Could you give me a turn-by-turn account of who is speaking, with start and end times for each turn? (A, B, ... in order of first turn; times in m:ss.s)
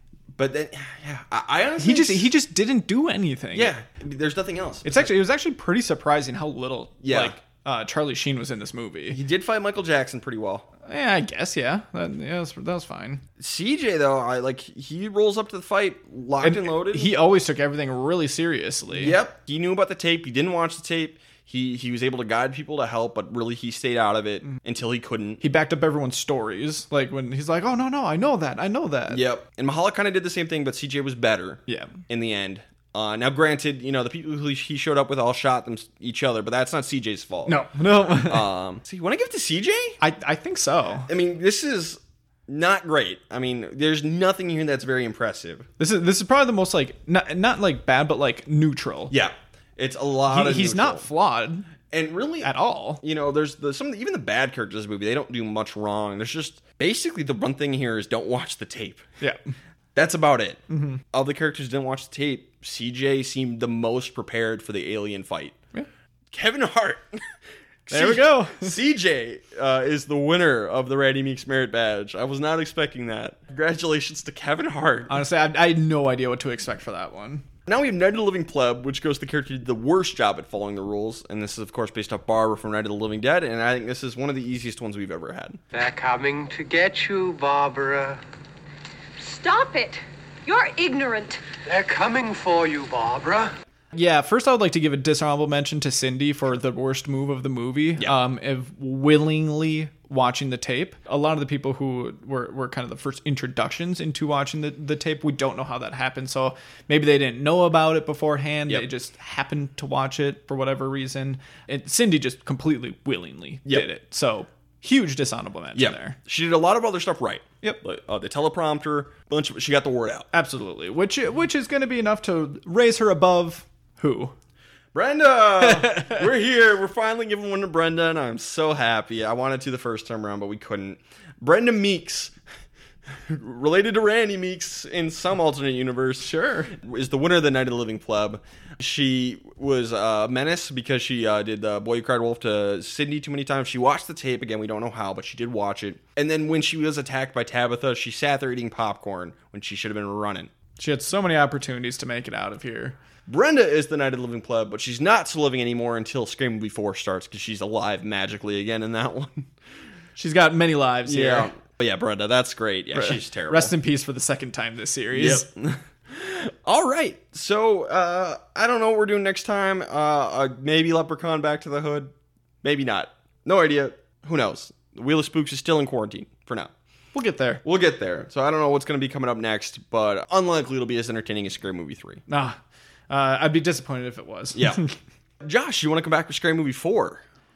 0:00.3-0:02.3 A
0:01.8-0:03.7 B
0:03.5-0:05.1 A
0:04.8-0:09.2 B
0:07.0-0:07.3 A
0:09.1-0:10.7 A
0:10.9-0:13.2 B
0:13.4-0:17.1 A
0:16.4-0:19.2 B
0:18.9-0:25.4 A
0:25.4-0:29.2 B
0:29.1-0:40.0 A
0:31.7-0:31.9 B
0:37.4-0:38.5 B
0:40.0-0:41.1 B
0:41.1-0:45.7 A
0:45.8-0:49.1 B
0:49.1-0:51.1 A
0:50.3-0:51.7 B
0:51.9-0:59.0 A
0:52.4-0:53.0 B
0:59.9-1:05.6 A
1:00.7-1:01.0 B
1:06.3-1:07.3 A
1:07.8-1:15.1 A
1:07.9-1:08.8 B
1:15.1-1:17.4 B
1:17.7-1:25.6 A
1:25.7-1:28.2 C
1:29.2-1:31.4 D
1:31.6-1:33.5 C
1:33.9-1:56.2 B
1:55.7-2:00.3 A
2:00.3-2:04.3 B
2:04.9-2:12.3 A
2:05.6-2:06.2 B
2:13.1-2:30.5 A
2:16.2-2:16.7 B
2:30.8-2:33.0 B
2:33.3-2:39.5 A
2:40.2-2:41.5 B
2:41.0-2:43.7 A
2:42.9-2:45.4 B
2:45.1-2:56.7 A
2:57.1-2:57.6 B
2:57.6-3:02.2 A
3:02.3-3:02.6 B
3:03.1-3:04.9 B
3:04.5-3:04.8 A
3:05.4-3:07.2 A